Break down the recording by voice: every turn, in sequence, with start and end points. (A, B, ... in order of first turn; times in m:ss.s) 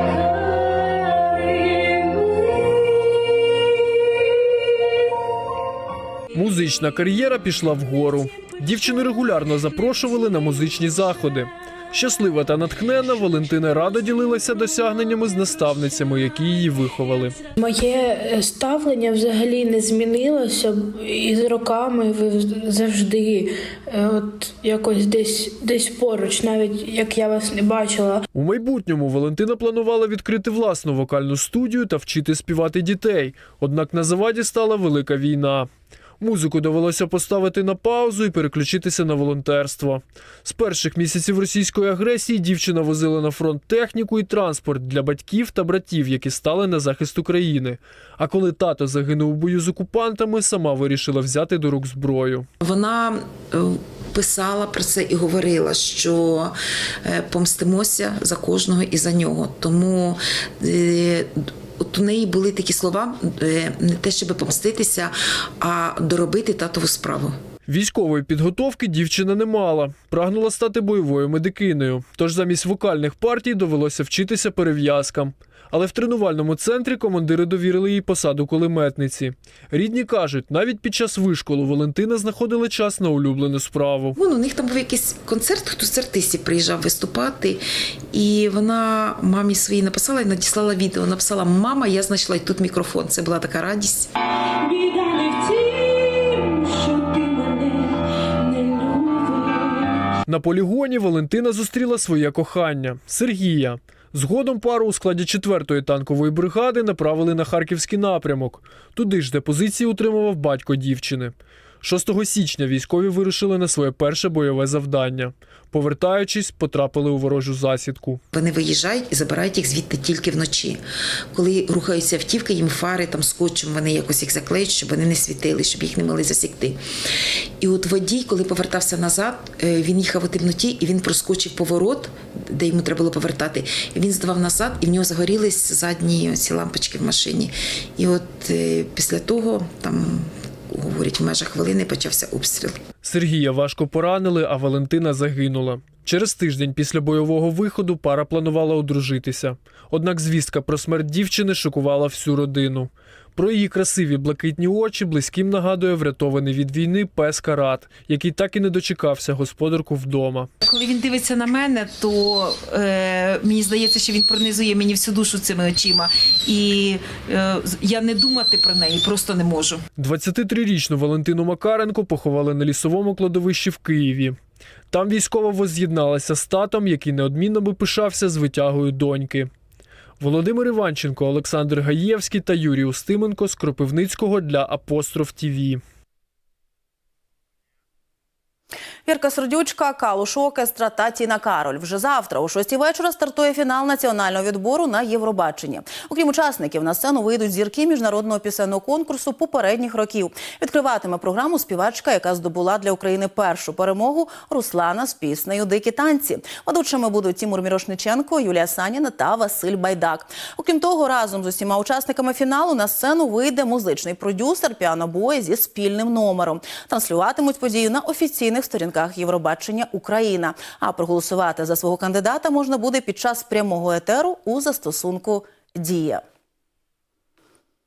0:06.4-0:17.4 A
0:17.6-0:28.2 B
0:28.3-0:35.7 A
0:36.2-0:52.5 A
0:52.6-1:07.4 C
1:07.7-1:24.2 A
1:24.2-1:34.1 C
1:40.3-1:58.2 A
1:58.3-2:00.8 C
2:01.3-2:06.8 C
2:07.6-2:22.8 C
2:23.0-2:40.5 A
2:40.6-2:49.8 D
2:50.0-2:54.4 A
2:54.9-2:59.5 A
3:00.2-3:05.8 A
3:09.1-3:46.2 E